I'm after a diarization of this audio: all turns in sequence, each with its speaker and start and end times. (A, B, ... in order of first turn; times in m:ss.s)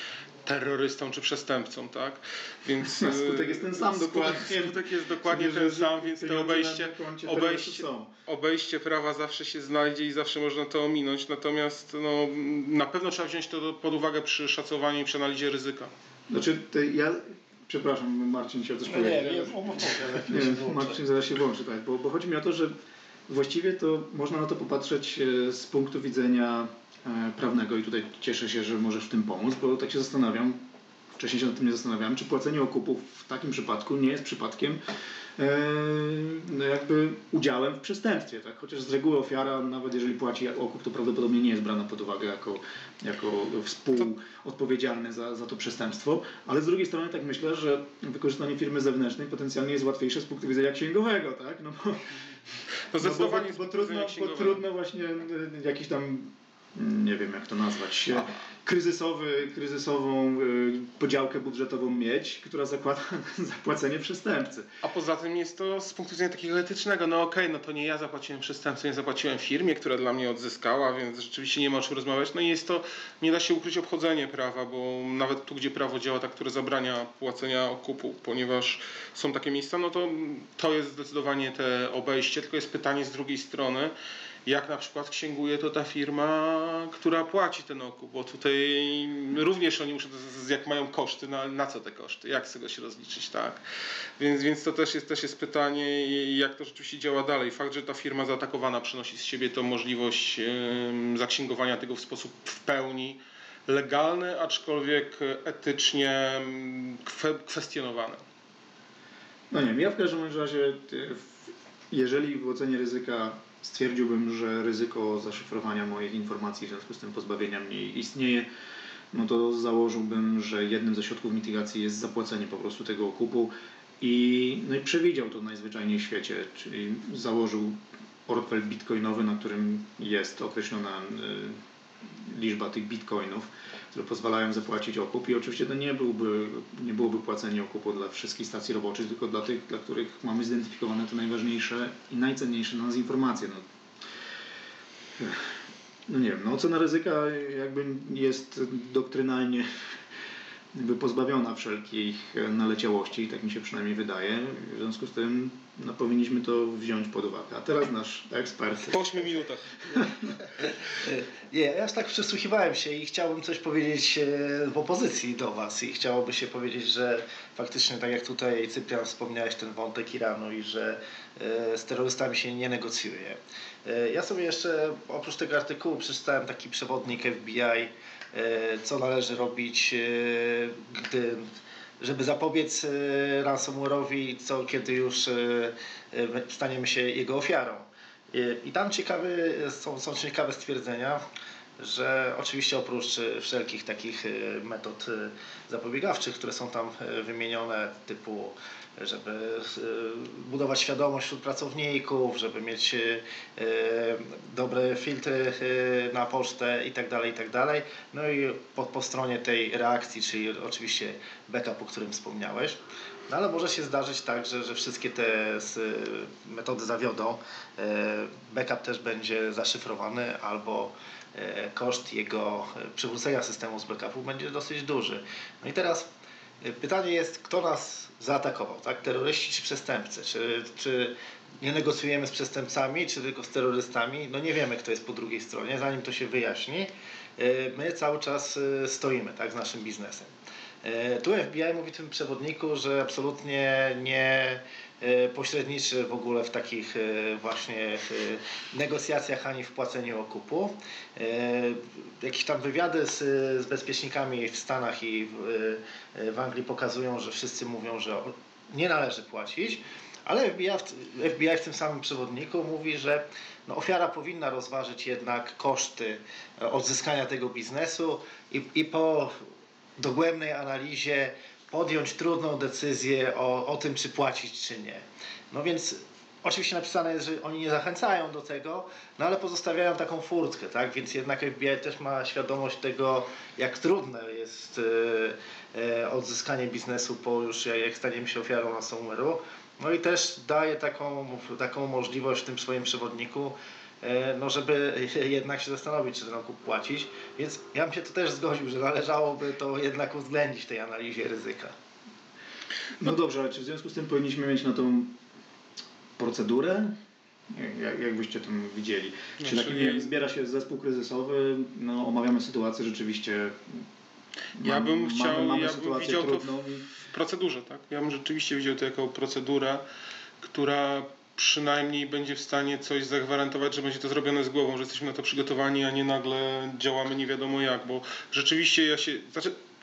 0:00.4-0:15.9 A
0:02.8-0:08.1 B
0:16.3-0:22.8 B
0:18.8-0:21.1 C
0:23.3-0:30.6 B
0:31.2-0:34.8 B
0:35.4-0:52.2 B
0:52.9-0:54.6 A
0:53.0-1:04.7 B
1:04.8-1:23.9 A
1:24.5-1:33.6 A
1:34.2-1:48.2 A
1:49.5-1:58.5 B
1:59.1-2:23.6 B
2:25.2-2:25.5 B
2:26.1-2:29.7 B
2:30.7-2:39.2 B
2:38.9-2:40.0 A
2:39.9-2:40.3 B
2:40.6-3:01.5 C
3:02.0-3:11.2 C
3:11.8-3:46.1 C
3:46.6-4:00.3 C
4:00.8-4:29.4 C
4:30.0-5:01.7 C
5:03.0-5:05.2 B
5:06.2-5:06.9 B
5:07.5-5:13.8 B
5:09.4-5:10.1 A
5:14.6-5:16.8 B
5:14.6-5:16.5 A
5:17.0-5:19.8 A
5:20.4-5:29.6 A